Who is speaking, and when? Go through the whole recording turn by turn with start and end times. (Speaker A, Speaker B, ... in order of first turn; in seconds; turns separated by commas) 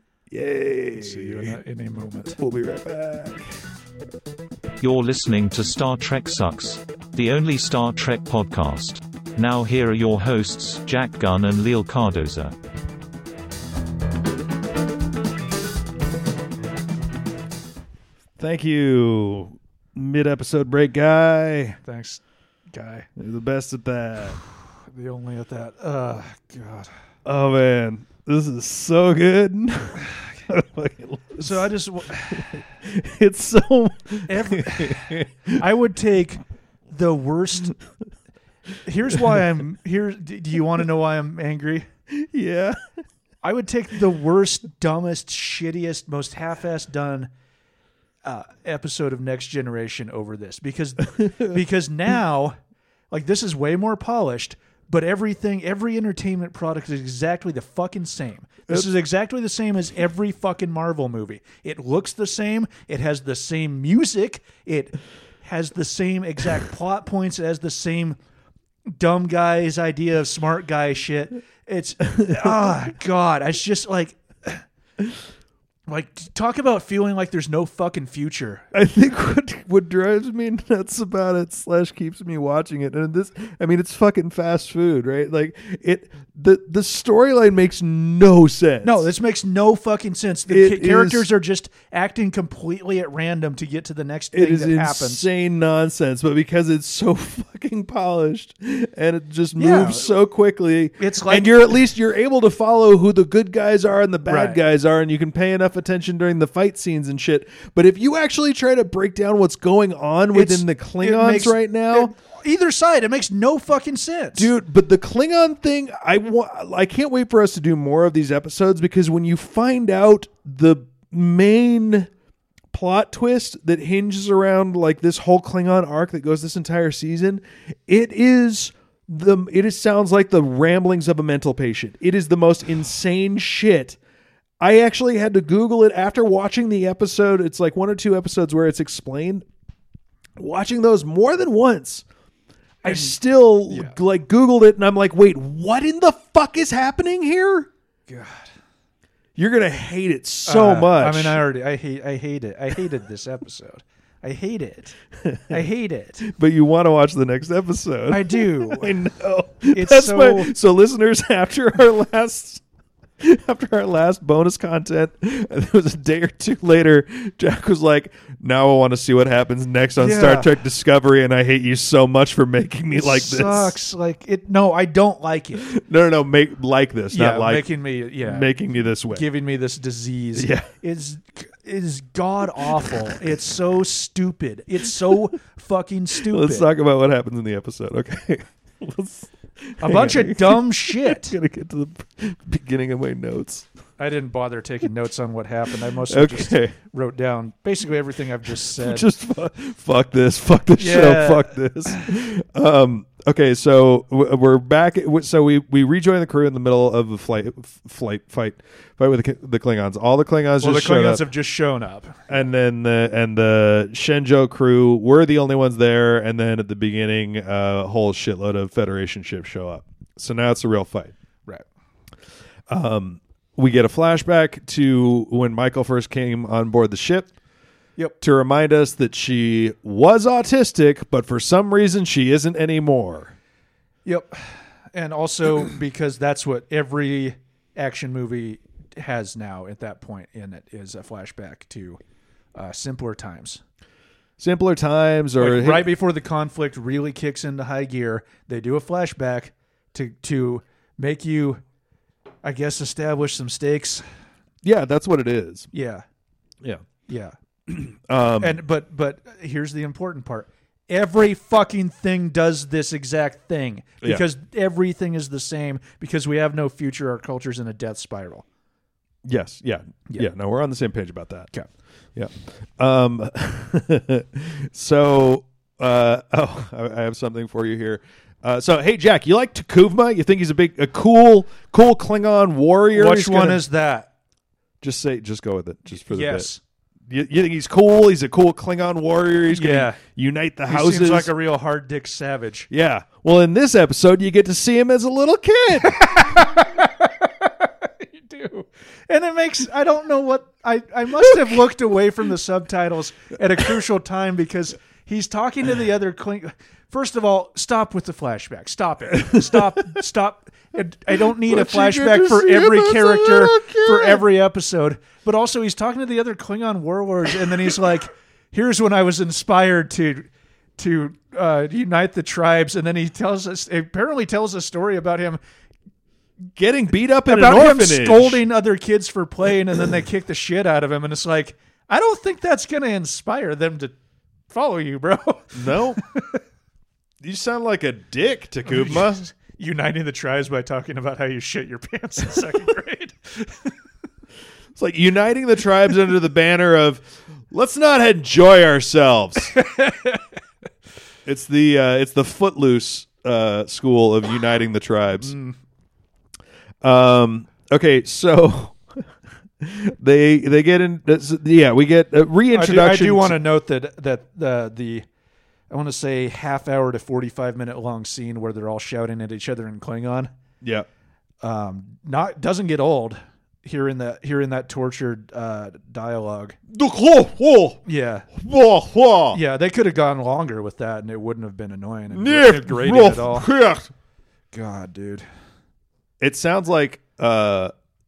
Speaker A: 0.3-1.6, Speaker B: 0.9-2.4, Speaker A: 2.2-3.5, Speaker C: 4.8-12.5, Speaker A: 18.4-21.8, Speaker B: 21.8-23.1, Speaker A: 23.2-24.4, Speaker B: 24.4-26.9, Speaker A: 27.2-31.7, Speaker B: 31.4-32.5, Speaker A: 32.3-35.6, Speaker B: 34.3-37.8, Speaker B: 38.8-41.9, Speaker A: 42.1-42.8, Speaker B: 43.4-47.3, Speaker B: 48.2-52.6, Speaker B: 53.1-68.2, Speaker B: 68.9-74.6, Speaker B: 75.9-78.7, Speaker A: 78.7-89.0, Speaker B: 88.8-95.2, Speaker A: 90.5-91.2, Speaker A: 94.3-112.1, Speaker B: 99.5-100.1, Speaker B: 101.0-101.7, Speaker B: 104.2-104.6, Speaker B: 110.3-114.5, Speaker A: 114.3-122.1, Speaker A: 122.7-134.0, Speaker A: 134.6-139.4, Speaker A: 140.4-142.0, Speaker B: 142.8-144.0, Speaker A: 142.8-147.7, Speaker B: 148.1-148.5, Speaker A: 149.3-151.4, Speaker B: 150.4-154.9, Speaker A: 155.2-155.6, Speaker B: 155.5-156.2, Speaker A: 156.2-162.6, Speaker B: 158.1-159.0, Speaker B: 159.7-160.5, Speaker A: 163.2-173.7, Speaker B: 170.0-170.5, Speaker B: 172.9-175.7, Speaker A: 175.6-177.7, Speaker B: 177.1-178.5, Speaker A: 178.2-179.2, Speaker B: 179.1-186.7, Speaker A: 180.3-180.7, Speaker A: 186.2-193.7, Speaker B: 189.8-191.3, Speaker B: 194.0-199.1, Speaker A: 196.1-196.7, Speaker A: 198.8-211.2, Speaker B: 200.8-202.0, Speaker B: 210.6-212.4, Speaker A: 212.3-221.1, Speaker A: 222.7-227.3, Speaker A: 228.2-233.3, Speaker B: 234.0-242.0, Speaker B: 242.5-243.6, Speaker A: 244.4-245.9, Speaker B: 245.4-251.6, Speaker B: 252.4-254.0, Speaker A: 254.6-255.7, Speaker B: 255.7-256.0, Speaker B: 257.1-257.4, Speaker A: 257.7-258.6, Speaker B: 258.4-268.4, Speaker A: 269.2-271.5, Speaker A: 272.1-283.6, Speaker B: 282.9-284.1, Speaker A: 284.8-286.5, Speaker B: 286.0-286.6, Speaker A: 287.1-291.3, Speaker B: 289.5-290.0, Speaker B: 290.7-292.7, Speaker A: 292.7-296.2, Speaker B: 295.8-325.4, Speaker A: 311.4-314.2, Speaker A: 326.6-328.4, Speaker B: 327.3-333.9, Speaker B: 334.5-336.4, Speaker A: 335.5-336.0, Speaker A: 337.2-339.2, Speaker B: 338.7-343.8, Speaker A: 344.8-349.6, Speaker B: 349.5-350.2, Speaker A: 351.2-355.3, Speaker B: 355.2-355.6, Speaker A: 356.8-358.8, Speaker A: 359.6-363.4, Speaker B: 362.5-365.1, Speaker B: 365.7-370.3, Speaker A: 370.6-370.9, Speaker B: 371.4-376.6, Speaker A: 376.7-377.8, Speaker B: 377.8-378.3, Speaker A: 378.4-379.4, Speaker B: 379.3-383.5, Speaker A: 382.1-383.9, Speaker B: 384.5-385.2, Speaker A: 386.2-387.7